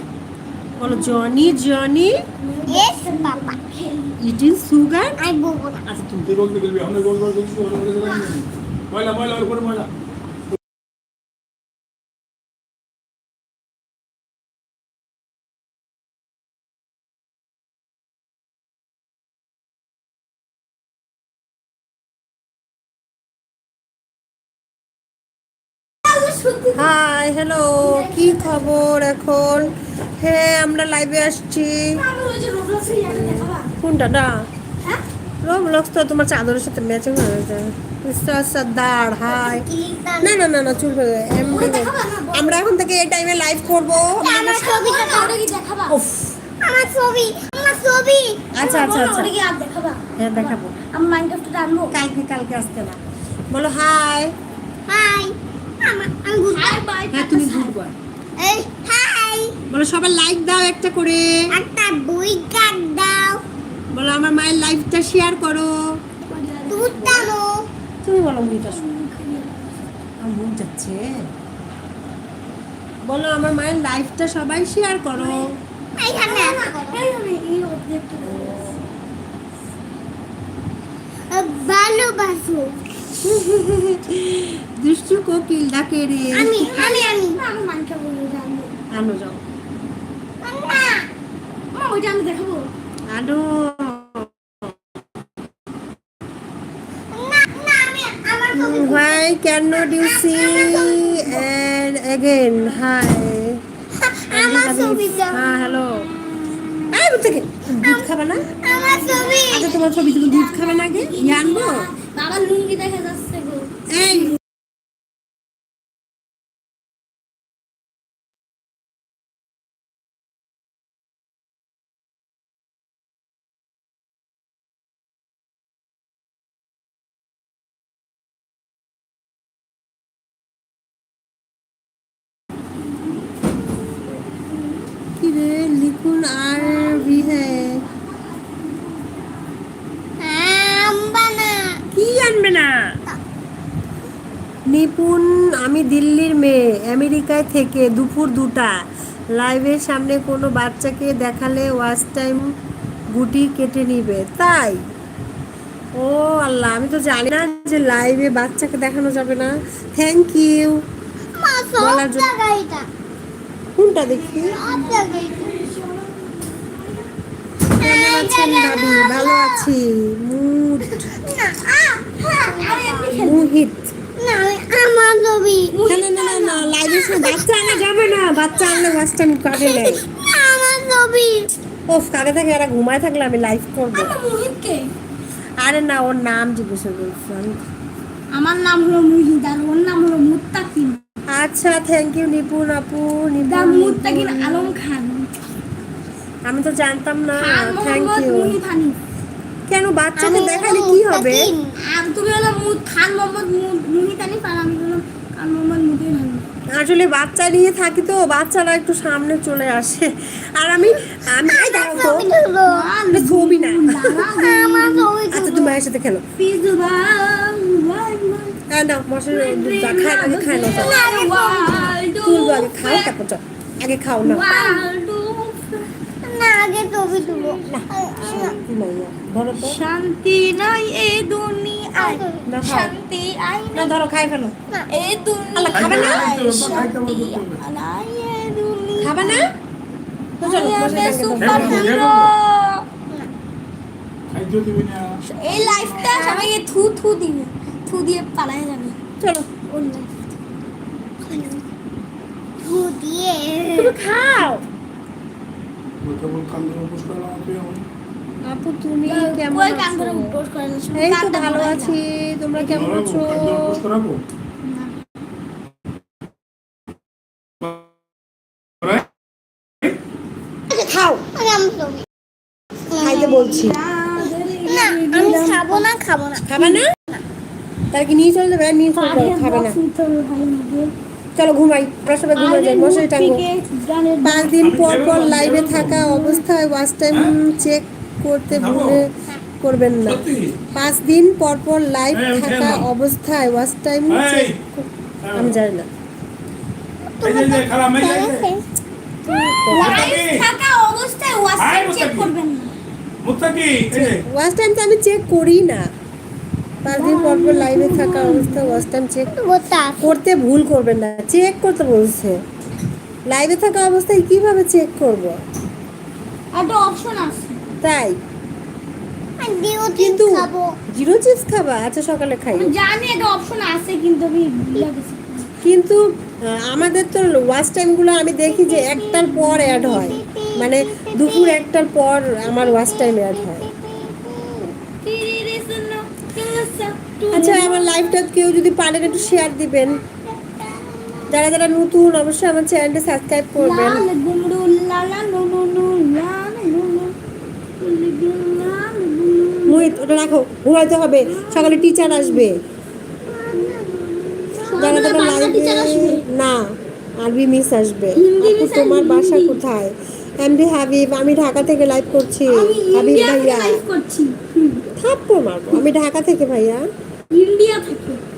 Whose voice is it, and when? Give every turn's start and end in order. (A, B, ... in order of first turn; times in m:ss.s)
0:00.8-0:01.6 A
0:00.8-0:02.1 B
0:02.4-0:04.2 A
0:02.7-0:03.6 C
0:04.2-0:05.2 B
0:05.2-0:05.8 C
0:05.9-0:06.3 B
0:06.2-0:09.9 D
0:26.0-0:26.9 A
0:26.8-0:32.0 B
0:27.8-0:28.7 A
0:31.9-0:33.7 A
0:33.1-0:34.5 B
0:35.4-0:39.6 B
0:39.3-0:40.9 C
0:40.2-0:44.6 B
0:41.4-0:42.7 A
0:44.2-0:46.0 A
0:44.2-0:45.4 C
0:45.9-0:46.3 B
0:46.6-0:48.4 C
0:48.5-0:49.3 B
0:48.6-0:52.0 A
0:50.2-0:50.8 B
0:51.9-0:53.0 B
0:53.5-0:54.3 B
0:54.9-0:56.7 C
0:56.5-0:57.8 A
0:57.1-0:57.9 B
0:58.4-0:59.6 C
0:59.7-1:01.3 B
1:01.5-1:03.4 C
1:03.9-1:05.8 B
1:06.2-1:07.3 A
1:06.7-1:07.5 C
1:08.0-1:08.8 B
1:08.4-1:09.9 A
1:10.2-1:11.0 B
1:13.1-1:15.6 B
1:15.2-1:15.5 A
1:16.0-1:17.0 C
1:16.2-1:18.9 A
1:18.2-1:18.8 B
1:21.3-1:22.8 C
1:23.2-1:26.7 B
1:26.3-1:27.4 C
1:26.4-1:28.8 A
1:28.9-1:29.4 B
1:30.4-1:31.1 C
1:31.7-1:32.7 A
1:33.1-1:34.7 B
1:37.1-1:39.3 C
1:38.5-1:43.6 B
1:39.8-1:41.4 C
1:43.9-1:45.5 C
1:44.3-1:46.1 B
1:45.3-1:46.7 A
1:46.9-1:48.5 B
1:47.8-1:49.7 C
1:48.5-1:54.2 A
1:49.5-1:51.9 B
1:53.9-1:54.4 B
2:15.2-2:17.8 B
2:16.6-2:19.6 A
2:20.2-2:21.8 C
2:21.9-2:22.8 B
2:24.7-2:28.7 B
2:29.3-2:32.5 B
2:33.1-2:34.8 B
2:35.9-2:40.8 B
2:41.4-2:42.9 C
2:41.8-2:42.3 B
2:43.8-2:44.6 B
2:44.2-2:47.1 A
2:44.4-2:45.6 C
2:47.7-2:49.7 C
2:47.8-2:51.1 B
2:51.2-2:53.2 C
2:52.4-2:53.5 A
2:53.2-2:53.9 B
2:54.2-2:55.8 C
2:55.7-2:56.8 A
2:55.9-3:00.0 B
2:56.9-3:01.5 C
3:01.9-3:04.2 B
3:03.9-3:04.9 A
3:05.6-3:07.6 B
3:08.3-3:11.0 A
3:11.3-3:14.7 B
3:13.5-3:15.3 A
3:16.4-3:18.6 B
3:17.4-3:19.0 A
3:19.7-3:21.5 B
3:20.2-3:21.8 C
3:21.8-3:26.4 A
3:26.7-3:32.3 B
3:30.8-3:32.9 C
3:32.7-3:35.1 A
3:33.1-3:34.3 B
3:34.2-3:35.7 C
3:35.3-3:36.2 B
3:36.4-3:38.6 A
3:38.7-3:41.0 B
3:39.3-3:43.1 A
3:40.6-3:42.0 C
3:42.2-3:44.5 B
3:44.2-3:45.8 A
3:44.3-3:44.8 C
3:46.2-3:48.6 C
3:47.1-3:48.6 A
3:47.7-3:49.8 B
3:49.6-3:53.9 A
3:52.0-3:52.4 C
3:52.4-3:53.0 B
3:53.8-3:54.6 B
3:54.9-3:59.5 A
3:55.6-3:56.8 B
3:55.7-3:57.6 D
3:59.0-3:59.5 B
4:00.4-4:02.0 B
4:00.4-4:02.8 A
4:01.4-4:02.3 D
4:04.3-4:06.1 D
4:05.3-4:09.0 A
4:05.9-4:06.5 C
4:09.2-4:10.1 B
4:11.3-4:11.6 C
4:12.6-4:13.9 C
4:13.7-4:14.6 B
4:16.0-4:17.8 D
4:18.4-4:20.4 B
4:19.1-4:22.0 A
4:20.9-4:23.8 B
4:22.7-4:24.2 D
4:24.6-4:24.9 A
4:28.8-4:29.1 D
4:30.7-4:31.2 B
4:30.7-4:32.1 C
4:32.9-4:33.6 C
4:33.0-4:33.8 B
4:33.0-4:35.8 A
4:34.2-4:37.2 C
4:36.4-4:36.9 B
4:37.9-4:39.8 B
4:39.0-4:40.9 A
4:41.4-4:43.4 B
4:42.3-4:46.4 A
4:44.2-4:55.9 B
4:44.6-4:46.0 D
4:48.5-4:49.0 D
4:50.1-4:50.6 D
4:52.1-4:52.9 D
4:54.1-4:54.6 D
4:55.2-4:55.5 D
4:57.2-4:58.6 C
4:57.2-4:58.5 D
4:59.3-5:00.1 C
4:59.3-5:00.1 B
4:59.7-5:02.7 A
4:59.8-5:00.4 D
5:01.6-5:02.3 D
5:03.2-5:04.2 D
5:03.9-5:05.9 B
5:06.8-5:09.3 B
5:06.9-5:08.9 A
5:09.3-5:10.2 C
5:10.0-5:12.4 B
5:13.3-5:15.4 B
5:16.5-5:17.6 A
5:17.8-5:18.2 B
5:19.4-5:20.7 C
5:20.0-5:22.7 B
5:22.5-5:25.5 A
5:25.6-5:33.7 B
5:28.4-5:31.6 C
5:32.4-5:34.8 C
5:35.0-5:38.0 A
5:37.3-5:40.0 B
5:39.1-5:39.5 C
5:40.4-5:41.3 C
5:41.3-5:44.0 B
5:43.6-5:47.2 A
5:47.8-5:50.3 A
5:49.7-5:52.6 B
5:51.2-5:52.5 A
5:53.3-5:55.1 C
5:54.6-5:56.3 A
5:54.8-6:03.8 B
5:58.2-5:59.6 A
6:02.5-6:04.8 A
6:05.0-6:06.9 B
6:07.3-6:08.2 A